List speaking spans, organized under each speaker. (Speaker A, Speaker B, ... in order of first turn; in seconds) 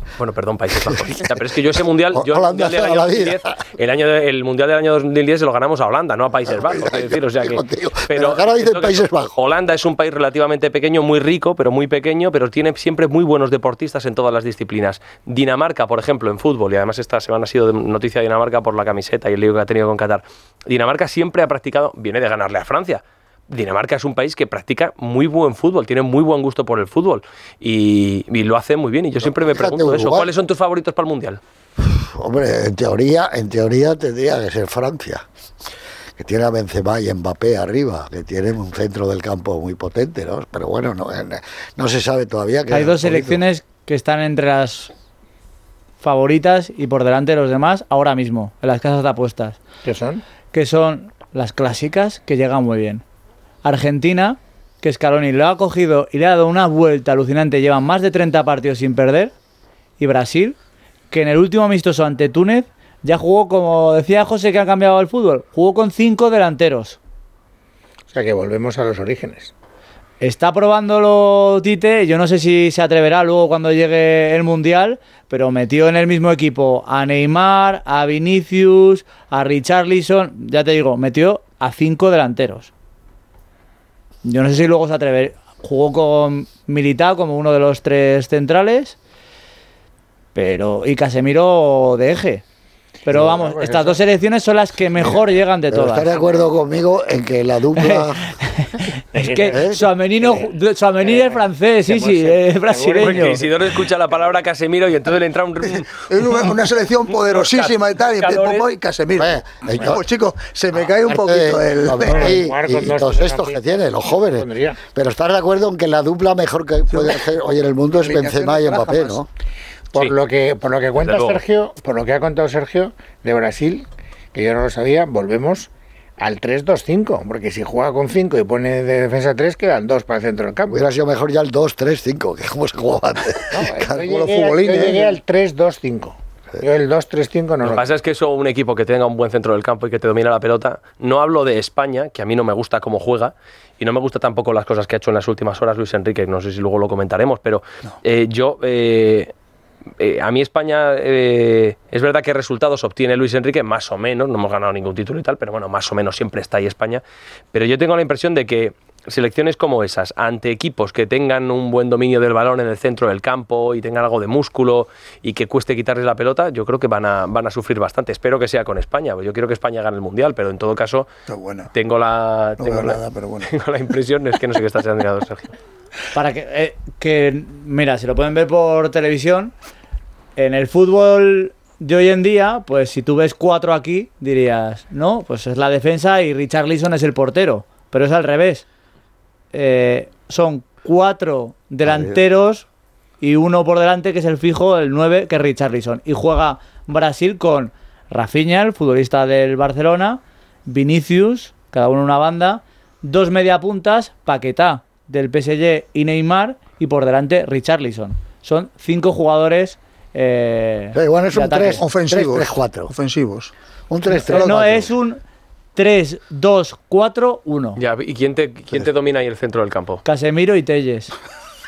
Speaker A: 0.2-31.4, 103.0-106.5, 107.1-108.7, 121.0-121.4, 137.6-149.3, 150.0-157.0, 157.5-171.1, 171.7-175.5, 217.8-220.0
Speaker B: 0.8-1.6, 2.1-3.6, 6.5-9.3, 29.2-30.3, 31.8-35.2, 36.2-43.4, 95.7-98.4, 99.5-99.8, 109.2-110.0, 111.1-119.3, 130.7-134.4, 191.8-192.2, 210.9-212.9, 213.9-214.9
Speaker C: 42.7-44.9, 46.0-49.6, 50.5-53.0, 53.6-59.3, 60.0-60.6, 61.1-67.0, 70.2-82.7, 84.2-89.0, 90.3-92.4, 93.0-96.1, 97.8-103.4, 176.1-179.5, 180.4-188.7, 189.5-192.7, 193.2-211.8, 214.1-215.2, 215.8-217.8, 220.1-221.1
Speaker D: 49.8-50.2, 68.1-69.5, 93.1-94.0, 99.1-100.5, 101.0-103.5, 112.0-114.8, 119.9-130.8, 133.5-137.9
Speaker E: 105.8-112.4, 116.9-117.2, 118.0-119.2, 134.0-135.1, 171.3-171.7, 172.6-173.5, 211.8-213.5, 214.3-214.6